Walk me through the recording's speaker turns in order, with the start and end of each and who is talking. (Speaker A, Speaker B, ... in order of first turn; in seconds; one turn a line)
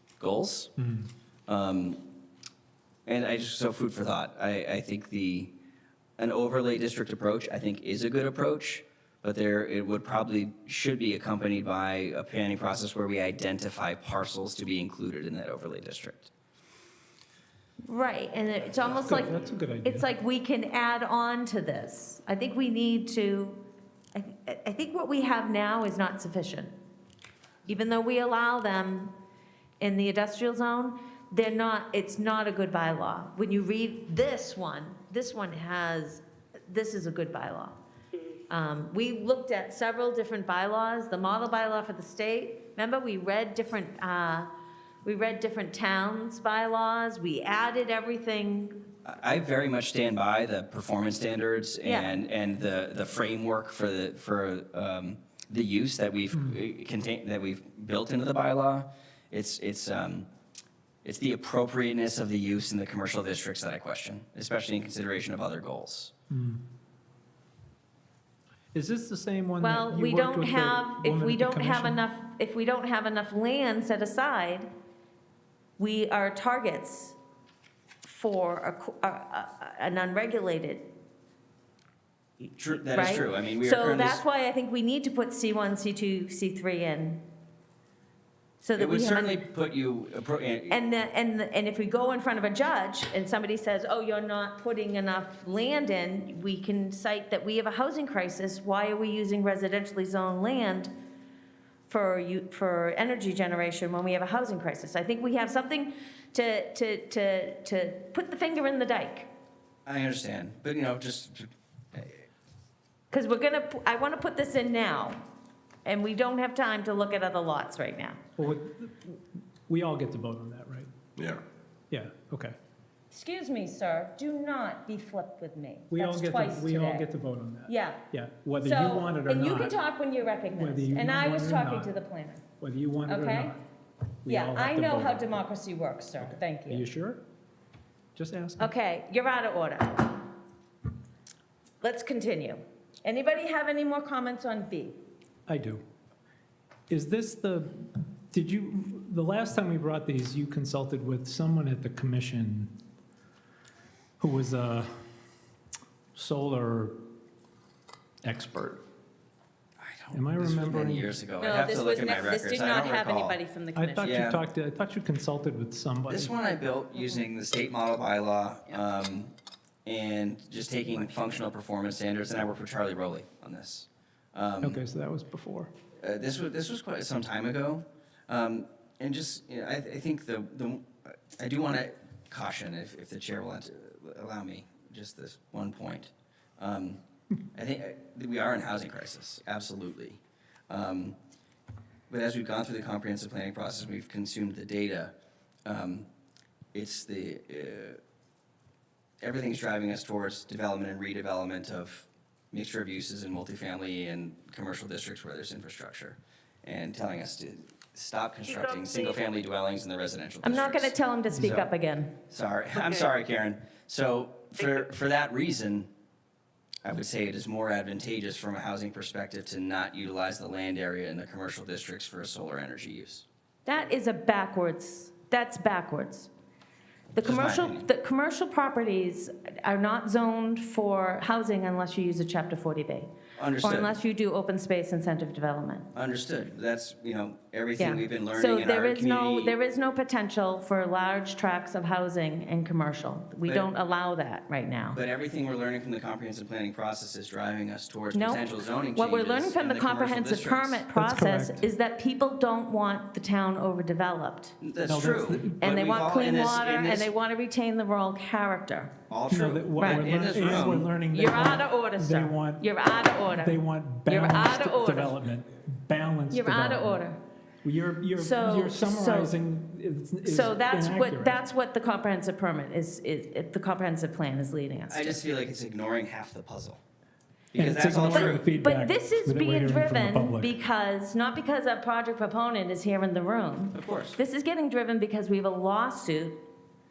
Speaker A: 0.2-0.7
Speaker B: 0.8-1.1
Speaker A: 1.5-2.0
Speaker A: 3.1-5.5
Speaker A: 6.2-16.3
Speaker C: 17.9-19.3
Speaker B: 19.1-20.1
Speaker C: 19.8-23.6
Speaker C: 24.1-26.7
Speaker C: 27.7-29.1
Speaker C: 29.8-37.8
Speaker C: 38.5-44.5
Speaker C: 45.0-48.8
Speaker A: 49.0-60.3
Speaker C: 51.8-52.1
Speaker A: 61.0-66.1
Speaker B: 66.3-66.6
Speaker B: 68.7-72.0
Speaker C: 69.6-74.7
Speaker C: 75.8-77.2
Speaker C: 78.0-80.9
Speaker A: 82.6-84.2
Speaker C: 82.9-87.2
Speaker C: 88.6-89.4
Speaker A: 88.8-90.8
Speaker C: 90.7-100.9
Speaker C: 101.9-109.3
Speaker A: 109.9-112.2
Speaker C: 113.1-115.2
Speaker C: 115.8-118.2
Speaker B: 118.4-120.9
Speaker B: 121.9-122.5
Speaker C: 123.1-127.1
Speaker B: 125.9-129.8
Speaker C: 127.7-128.0
Speaker C: 128.6-132.4
Speaker B: 130.6-131.9
Speaker B: 132.6-133.6
Speaker C: 133.1-133.5
Speaker B: 134.2-135.4
Speaker C: 134.3-136.9
Speaker B: 136.2-137.2
Speaker B: 138.2-138.7
Speaker C: 138.6-140.3
Speaker C: 141.8-145.0
Speaker B: 145.5-145.8
Speaker B: 146.9-152.7
Speaker B: 154.2-154.9
Speaker B: 156.2-157.0
Speaker B: 158.2-158.8
Speaker A: 159.8-163.4
Speaker B: 160.1-161.1
Speaker C: 161.4-164.2
Speaker B: 163.8-166.3
Speaker A: 164.0-164.4
Speaker A: 166.1-169.3
Speaker A: 169.9-174.8
Speaker B: 174.6-175.7
Speaker A: 176.0-187.0
Speaker A: 187.5-191.2
Speaker A: 192.1-195.1
Speaker A: 195.7-196.1
Speaker A: 196.7-198.0
Speaker A: 199.2-211.7
Speaker C: 210.4-212.1
Speaker A: 212.3-215.9
Speaker A: 216.8-223.3
Speaker C: 223.7-226.3
Speaker C: 227.2-235.9
Speaker A: 227.2-227.9
Speaker A: 233.4-233.9
Speaker A: 235.9-239.5
Speaker C: 237.8-245.0
Speaker A: 244.9-250.8
Speaker C: 248.1-254.6
Speaker B: 250.9-251.7
Speaker A: 254.6-257.1
Speaker B: 254.8-255.6
Speaker C: 255.6-258.9
Speaker A: 259.1-260.9
Speaker B: 259.3-262.6
Speaker C: 260.6-265.1
Speaker B: 263.3-267.0
Speaker C: 266.3-267.2
Speaker B: 267.6-271.4
Speaker C: 268.2-269.4
Speaker C: 270.2-275.2
Speaker A: 274.9-276.8
Speaker A: 277.5-278.4
Speaker B: 277.6-280.5
Speaker C: 278.1-286.4
Speaker A: 283.7-284.2